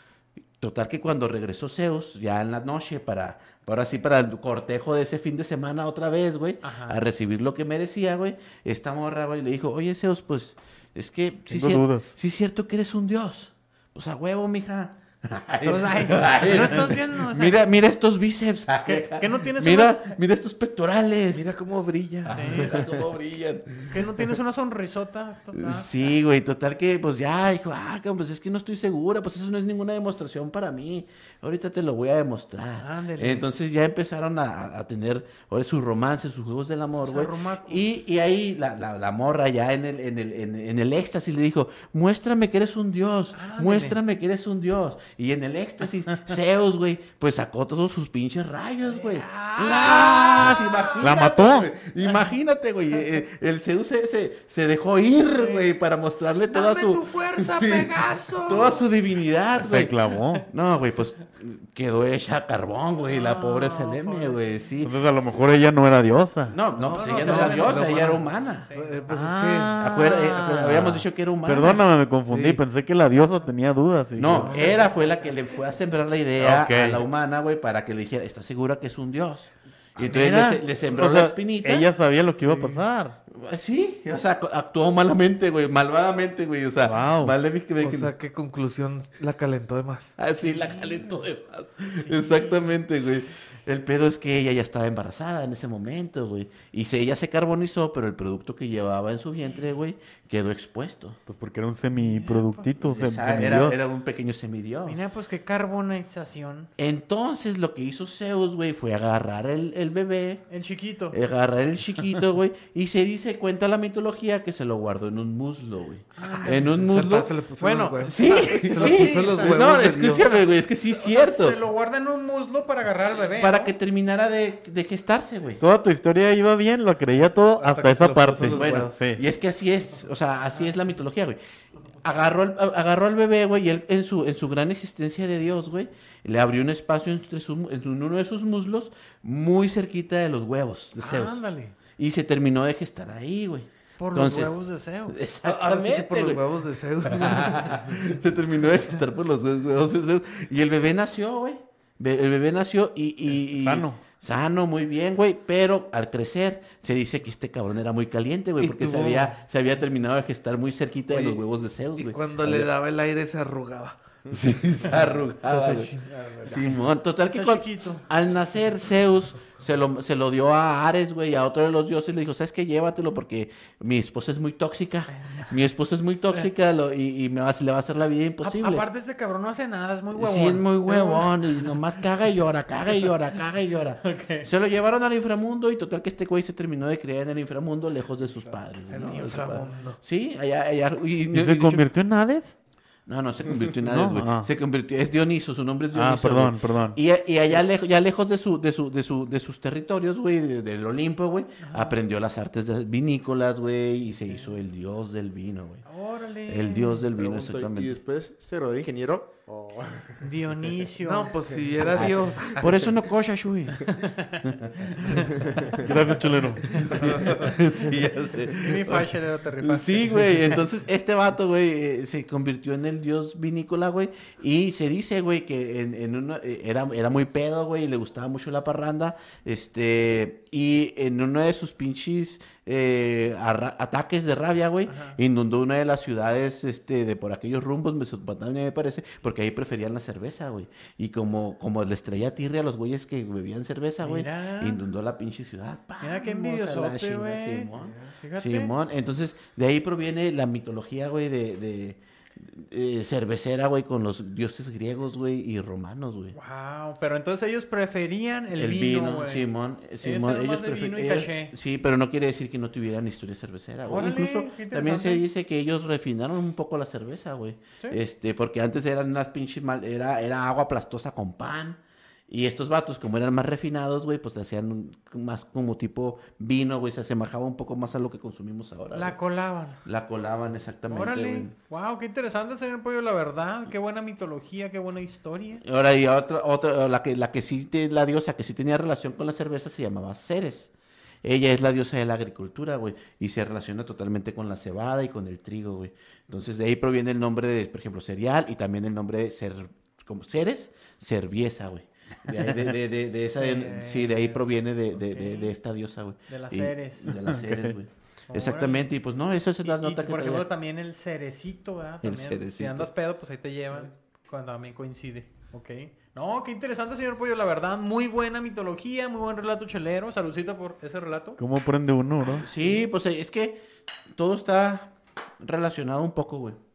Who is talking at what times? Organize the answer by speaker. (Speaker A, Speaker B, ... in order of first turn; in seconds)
Speaker A: 0.6-21.5, 22.2-24.2, 25.5-60.0, 60.5-64.9, 66.5-68.7, 69.8-71.8, 74.2-81.9, 83.3-88.1, 90.2-101.2, 102.8-105.0, 106.8-110.4, 111.1-117.3, 118.0-121.6, 123.3-125.6, 128.5-131.4, 132.0-141.4, 142.0-144.6, 145.1-146.4, 147.0-162.7, 164.3-178.8, 180.1-191.8, 193.1-205.8, 206.5-208.0, 211.9-215.2, 216.7-256.4, 258.5-279.1, 279.8-281.5, 285.6-290.7, 291.2-310.5, 312.0-312.9, 322.4-323.6, 324.1-326.6
Speaker B: 6.6-7.0, 15.6-17.6, 18.8-20.2, 22.3-22.7, 23.9-26.1, 32.8-33.5, 37.0-37.8, 43.3-44.0, 48.9-51.3, 55.3-55.7, 56.5-58.9, 63.0-64.4, 66.9-69.2, 90.5-90.9, 92.0-92.5, 102.0-102.7, 104.8-106.7, 110.5-111.2, 116.2-116.9, 117.6-119.7, 120.8-123.7, 141.0-141.7, 144.0-145.2, 167.2-168.1, 175.1-175.6, 178.4-181.8, 184.0-184.5, 201.6-202.0, 205.8-207.1, 210.2-211.4, 213.8-215.4, 218.5-220.6, 234.8-235.2, 244.0-244.8, 246.0-247.7, 248.2-248.7, 256.3-259.5, 260.0-261.5, 263.8-265.2, 278.9-279.8, 280.9-285.6, 303.3-304.4, 305.0-305.5, 306.3-307.2, 308.3-308.9, 309.6-321.4
Speaker C: 11.5-12.1, 51.0-51.7, 59.6-60.5, 64.8-66.6, 69.1-74.8, 76.4-77.0, 80.0-83.2, 86.8-87.3, 101.3-103.8, 125.6-129.2, 153.5-154.0, 191.3-192.6, 193.8-194.5, 195.9-197.0, 215.7-217.2, 307.2-307.8, 321.4-322.4
Speaker D: 21.3-22.9, 66.8-68.2, 68.7-69.8, 72.3-72.6, 74.2-74.8, 82.4-82.8, 87.8-90.1, 116.4-120.3, 127.6-128.9, 145.4-147.9, 158.6-159.4, 161.1-161.4, 161.9-164.0, 164.8-166.7, 188.9-190.0, 211.0-212.9, 216.9-217.4
Speaker E: 207.1-210.2, 211.4-212.0